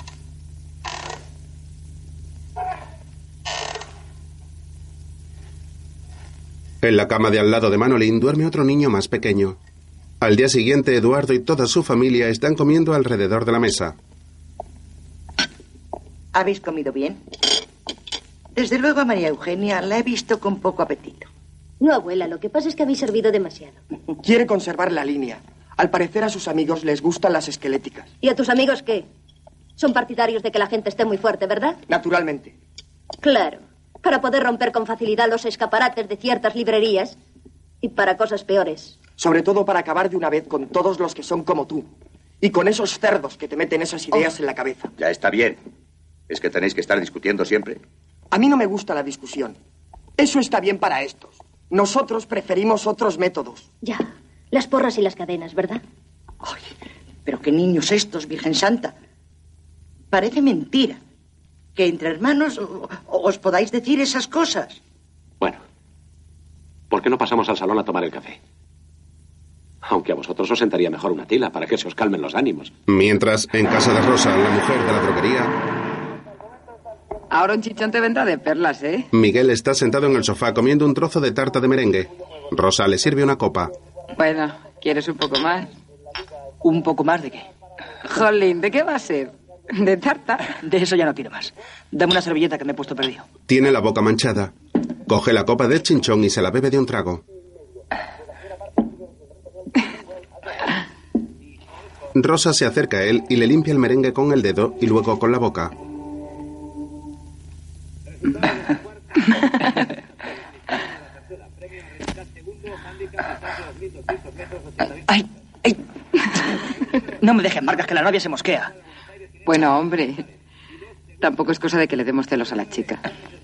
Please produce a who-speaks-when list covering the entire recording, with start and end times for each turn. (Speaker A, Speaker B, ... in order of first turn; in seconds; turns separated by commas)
Speaker A: 6.8-9.6, Speaker A: 10.2-13.9, Speaker B: 16.3-17.2, Speaker B: 18.5-21.3, Speaker C: 21.8-23.8, Speaker D: 24.2-28.1, Speaker C: 28.2-29.1, Speaker C: 29.8-31.8, Speaker D: 31.9-32.5, Speaker C: 33.2-37.2, Speaker C: 37.8-39.0, Speaker D: 39.2-41.9, Speaker D: 42.4-44.9, Speaker E: 45.0-45.6, Speaker E: 46.3-47.8, Speaker D: 48.3-49.6, Speaker D: 50.2-53.6, Speaker C: 53.8-55.8, Speaker B: 57.2-58.9, Speaker B: 60.1-61.0, Speaker B: 61.8-64.8, Speaker F: 66.9-68.4, Speaker F: 69.8-72.7, Speaker A: 72.9-75.5, Speaker G: 77.3-79.1, Speaker A: 79.1-83.7, Speaker G: 84.1-85.7, Speaker H: 86.6-87.5, Speaker G: 88.0-90.5, Speaker H: 90.6-93.2, Speaker A: 93.5-94.5, Speaker A: 95.1-97.2, Speaker A: 102.1-105.7, Speaker H: 117.2-118.7, Speaker G: 119.5-120.2, Speaker G: 121.2-123.0